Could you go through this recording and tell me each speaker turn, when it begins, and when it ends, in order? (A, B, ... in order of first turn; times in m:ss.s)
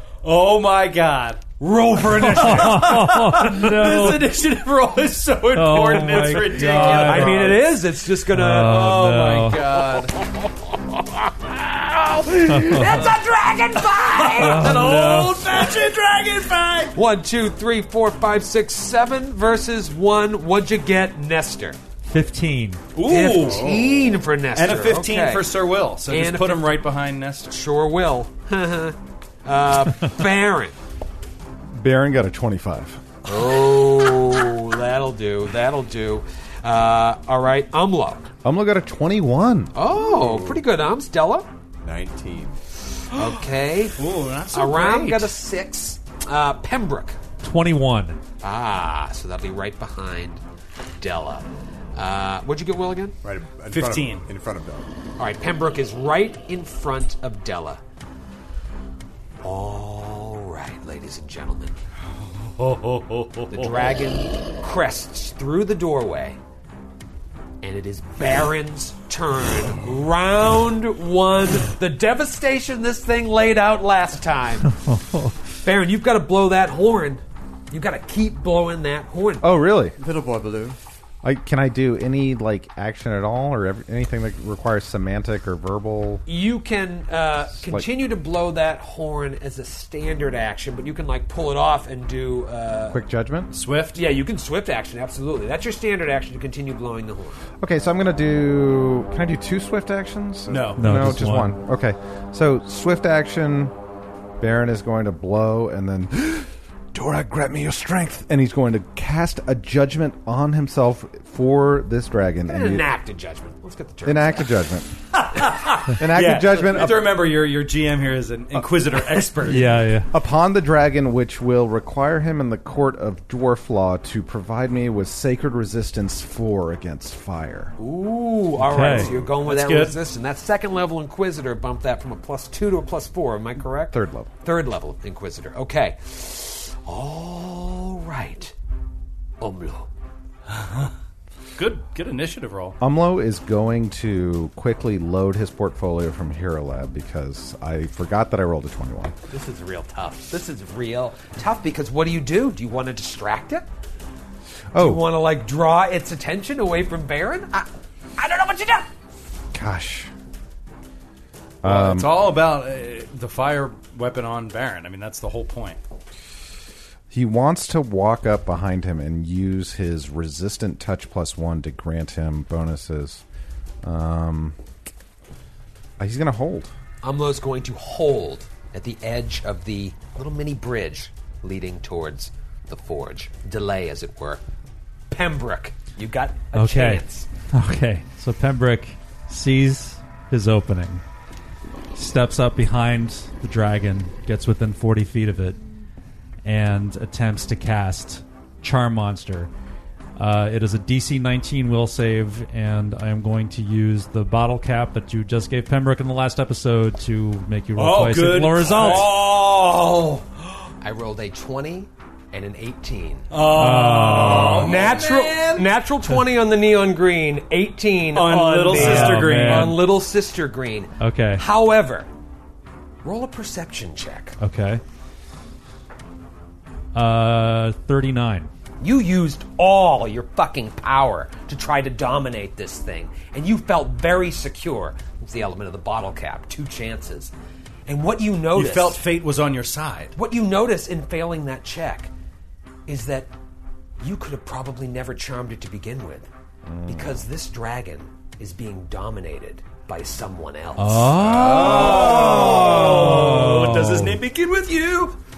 0:00.2-0:01.5 A
0:01.6-0:03.0 B
0:02.1-0:07.7 A
0:02.2-0:04.3 C
0:05.6-0:07.6 C
0:06.2-0:08.8 B
0:08.3-0:09.6 C
0:08.5-0:10.2 A
0:11.8-0:15.0 B
0:12.5-0:13.1 C
0:14.1-0:17.0 A
0:14.4-0:15.5 C
0:17.0-0:21.8 B
0:22.1-0:22.8 C
0:22.9-0:23.7 A
0:23.0-0:25.5 B
0:23.4-0:24.1 D
0:24.6-0:27.5 A
0:26.1-0:26.7 B
0:27.5-0:30.8 B
0:31.7-0:33.0 E
0:33.2-0:38.3 B
0:38.4-0:39.7 E
0:39.7-0:41.5 B
0:39.9-0:40.6 D
0:41.8-0:42.6 D
0:43.1-0:44.0 B
0:44.0-0:45.3 A
0:44.5-0:47.2 B
0:47.4-0:48.2 C
0:48.4-0:50.4 B
0:51.0-0:53.2 B
0:53.2-0:54.9 D
0:53.7-0:54.3 A
0:55.2-0:57.8 B
0:59.4-1:01.8 B
1:02.4-1:03.9 A
1:03.5-1:06.4 B
1:07.6-1:14.8 B
1:14.7-1:15.4 C
1:15.6-1:19.5 B
1:19.4-1:20.0 E
1:20.0-1:20.8 D
1:21.2-1:26.2 E
1:26.3-1:33.0 B
1:27.6-1:27.9 E
1:32.9-1:33.5 E
1:33.5-1:34.0 A
1:34.0-1:37.4 B
1:37.6-1:43.7 E
1:40.5-1:41.2 A
1:40.8-1:41.6 C
1:44.4-1:52.9 E
1:52.5-1:54.6 B
1:54.0-1:54.9 E
1:55.1-1:59.8 A
1:56.0-1:57.2 E
1:59.5-2:00.1 C
2:00.1-2:07.7 E
2:07.8-2:18.6 B
2:08.6-2:09.1 C
2:09.3-2:10.0 A
2:13.9-2:14.3 E
2:19.4-2:19.9 B
2:20.5-2:20.9 A
2:21.6-2:22.8 A
2:22.8-2:29.2 E
2:29.3-2:33.7 B
2:34.7-2:35.0 E
2:34.8-2:38.9 B
2:39.5-2:40.1 E
2:41.6-2:42.2 E
2:41.6-2:45.8 A
2:47.1-2:53.2 E
2:53.8-2:54.6 E
2:56.0-2:56.7 E
2:57.0-3:04.4 B
3:05.1-3:07.3 B
3:06.5-3:11.0 C
3:12.0-3:15.6 C
3:16.4-3:19.5 C
3:20.2-3:29.2 C
3:27.8-3:30.6 A
3:28.8-3:29.1 B
3:30.8-3:33.3 B
3:33.3-3:35.7 A
3:33.5-3:34.9 C
3:34.2-3:42.1 B
3:38.1-3:39.8 A
3:38.7-3:39.9 C
3:41.0-3:41.4 C
3:43.0-3:44.4 B
3:44.4-3:44.8 C
3:46.9-3:48.5 C
3:48.8-3:57.3 B
3:57.9-3:59.0 B
3:58.5-4:00.2 A
4:00.2-4:02.1 B
4:02.9-4:03.3 B
4:04.0-4:06.3 B
4:06.7-4:07.2 E
4:06.9-4:13.1 B
4:10.8-4:14.2 C
4:11.2-4:15.2 A
4:11.2-4:12.0 D